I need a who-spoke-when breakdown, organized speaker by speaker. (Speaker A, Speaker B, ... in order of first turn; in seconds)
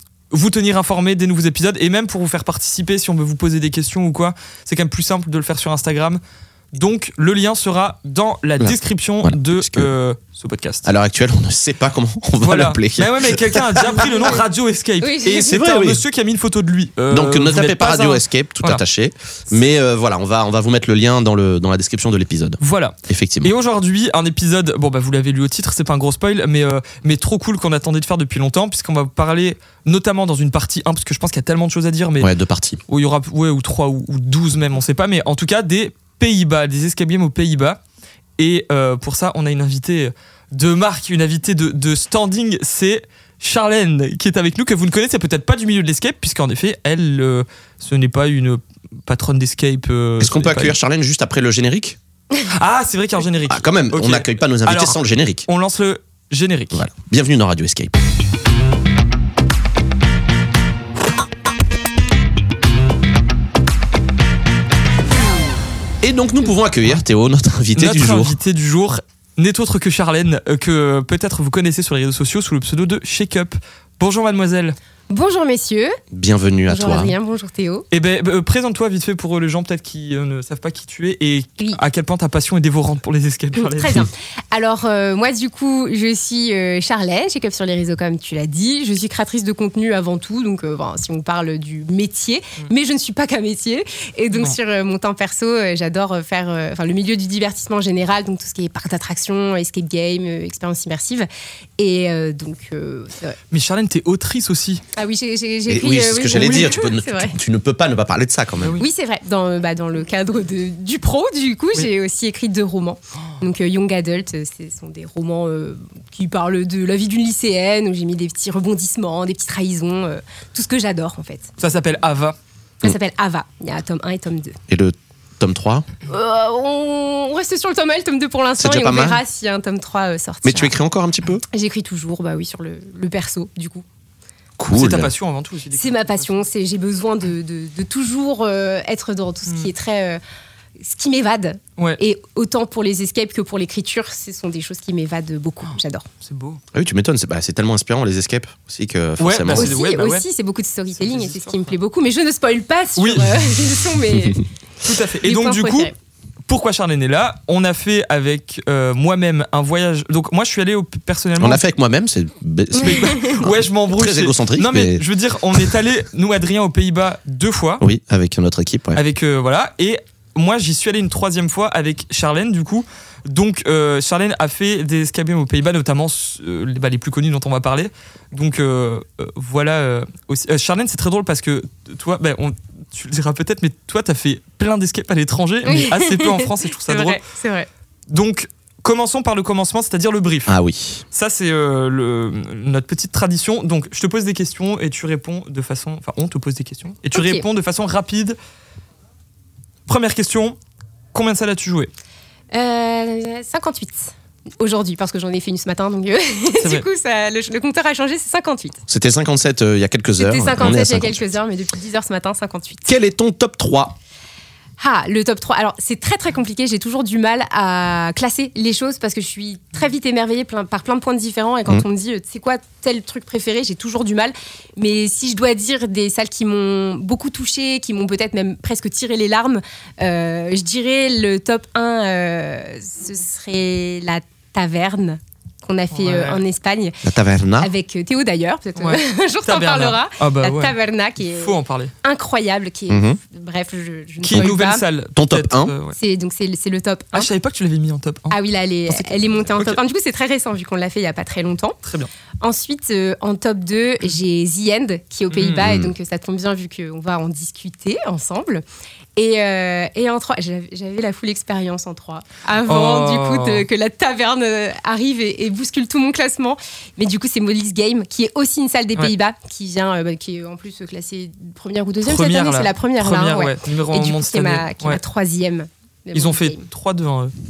Speaker A: 0.3-6.2, 6.7-10.9, 12.4-18.8, 22.6-32.3, 32.9-37.8, 38.4-50.7, 52.5-56.9, 67.7-74.8, 77.9-84.1, 103.5-104.8, 121.6-122.3, 134.7-136.3, 145.7-146.6, 149.2-150.2, 151.1-151.5, 153.0-153.3, 154.8-155.9, 156.5-161.6, 162.7-167.8, 168.9-187.2, 188.1-190.5, 191.1-198.4, 199.9-200.6, 201.1-201.9, 206.6-206.8, 235.9-236.4, 238.8-241.9, 244.2-245.9, 247.1-249.8, 251.8-252.1, 255.3-255.7, 262.6-263.6, 272.0-275.0, 276.1-277.3
Speaker B: 8.6-9.9, 10.8-14.3, 15.4-16.0, 17.1-23.5, 32.2-32.8, 50.2-52.0, 53.5-55.5, 56.7-57.9, 66.0-68.3, 76.1-77.1, 105.7-108.8, 124.7-125.9, 128.6-129.2, 130.4-131.4, 134.6-135.1, 146.7-149.7, 161.4-165.0, 167.8-169.0, 190.5-191.0, 208.9-211.3, 212.9-213.9, 237.0-237.7, 242.9-243.2, 245.2-245.7, 255.6-255.9
Speaker C: 13.9-14.4, 15.0-15.5, 75.1-76.0, 76.7-77.8, 83.5-103.4, 104.9-107.3, 108.8-121.5, 122.8-124.6, 126.1-130.7, 131.5-133.8, 135.8-140.2, 140.8-146.1, 149.6-154.4, 155.2-155.9, 162.8-163.3, 185.7-187.7, 197.2-197.4, 202.5-208.8, 210.2-212.9, 214.8-237.0, 237.6-244.8, 245.9-247.3, 248.3-251.8, 252.4-258.6, 259.1-276.6